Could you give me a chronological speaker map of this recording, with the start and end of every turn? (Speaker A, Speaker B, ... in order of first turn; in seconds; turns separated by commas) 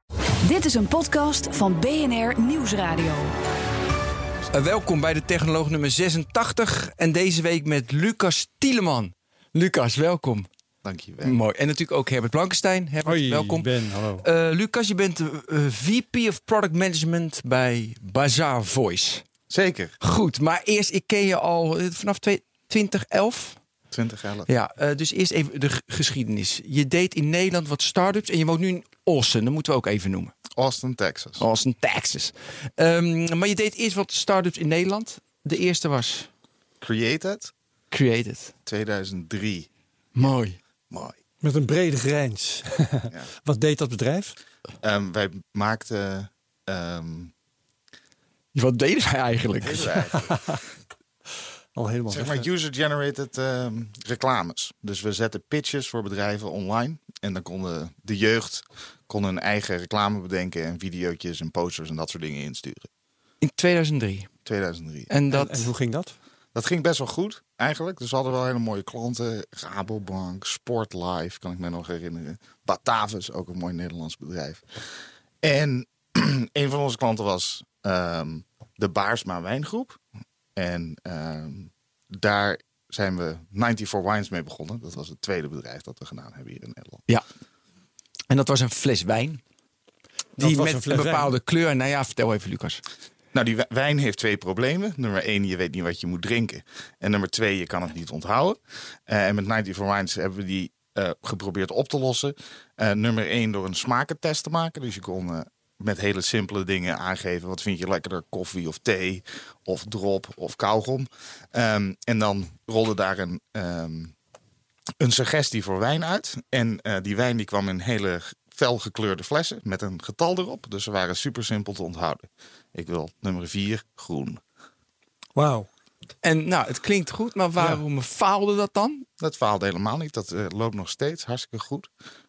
Speaker A: 0.4-3.3, Speaker B: 4.5-10.5, Speaker C: 10.8-11.4, Speaker B: 11.2-13.7, Speaker D: 13.1-14.2, Speaker B: 14.2-19.2, Speaker C: 19.5-20.0, Speaker B: 20.0-23.6, Speaker C: 23.9-24.5, Speaker B: 24.5-30.3, Speaker C: 30.5-31.4, Speaker B: 31.4-36.3, Speaker C: 36.8-37.5, Speaker B: 37.9-38.5, Speaker C: 38.6-39.7, Speaker B: 40.1-40.6, Speaker C: 40.9-41.2, Speaker D: 41.4-44.4, Speaker C: 44.8-47.3, Speaker B: 48.5-50.0, Speaker C: 49.6-50.4, Speaker D: 50.3-50.6, Speaker D: 51.8-52.5, Speaker C: 52.1-62.9, Speaker B: 63.4-64.3, Speaker C: 64.4-65.1, Speaker B: 65.1-65.7, Speaker D: 65.3-66.1, Speaker C: 66.5-80.0, Speaker C: 80.5-87.0, Speaker B: 88.3-89.4, Speaker D: 90.4-91.3, Speaker B: 90.4-92.8, Speaker C: 93.3-114.1, Speaker C: 115.0-124.4, Speaker D: 125.3-125.7, Speaker B: 126.2-129.1, Speaker C: 129.2-131.9